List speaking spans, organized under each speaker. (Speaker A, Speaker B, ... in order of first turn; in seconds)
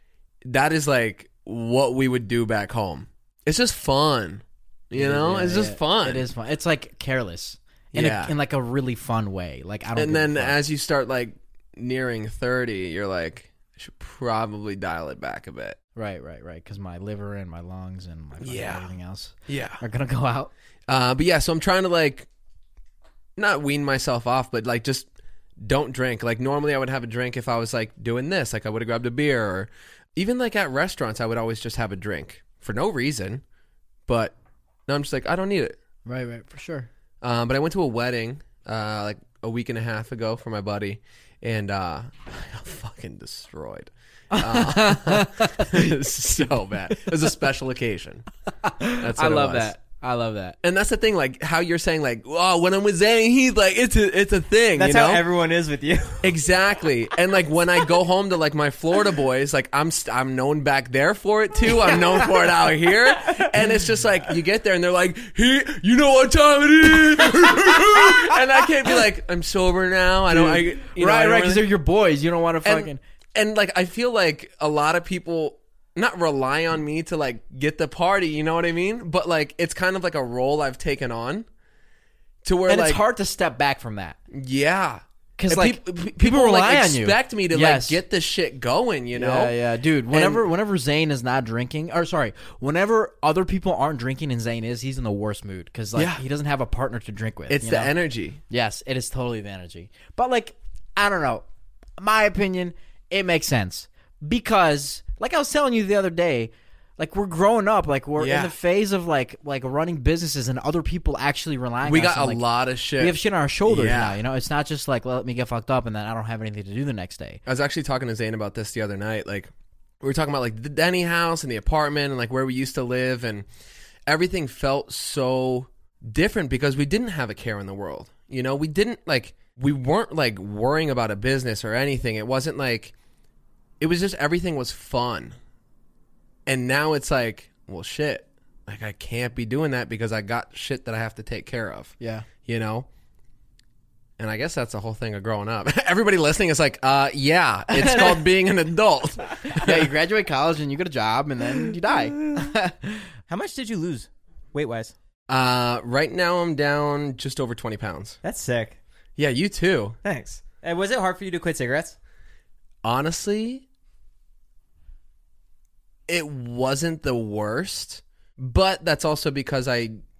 Speaker A: 0.5-6.3, 7.9-8.3, 10.0-15.8, 18.4-18.9, 19.5-19.8, 20.9-22.3, 23.4-25.1, 25.6-33.4, 34.1-34.4, 34.9-35.8, 37.2-48.2, 49.0-49.7, 50.6-55.2, 56.2-71.7, 72.6-81.5, 82.4-83.0, 84.3-89.5, 90.1-90.5, 96.0-96.2, 97.5-98.4, 108.2-108.5, 111.8-114.2, 117.5-123.5, 124.1-132.9, 133.8-135.4, 136.5-142.9, 144.2-149.9, 155.3-158.2, 159.2-160.0, 162.8-163.6, 166.1-170.0
Speaker B: 4.9-10.6, 15.9-20.5, 36.0-36.9, 44.3-45.9, 48.6-50.5, 70.3-73.0, 82.7-84.2, 85.4-88.0, 89.1-97.9, 98.5-101.4, 102.0-112.4, 113.0-117.4, 142.0-142.2, 147.7-148.2, 149.5-153.1
Speaker C: 54.8-56.4, 153.3-154.9, 158.2-158.8, 160.0-162.0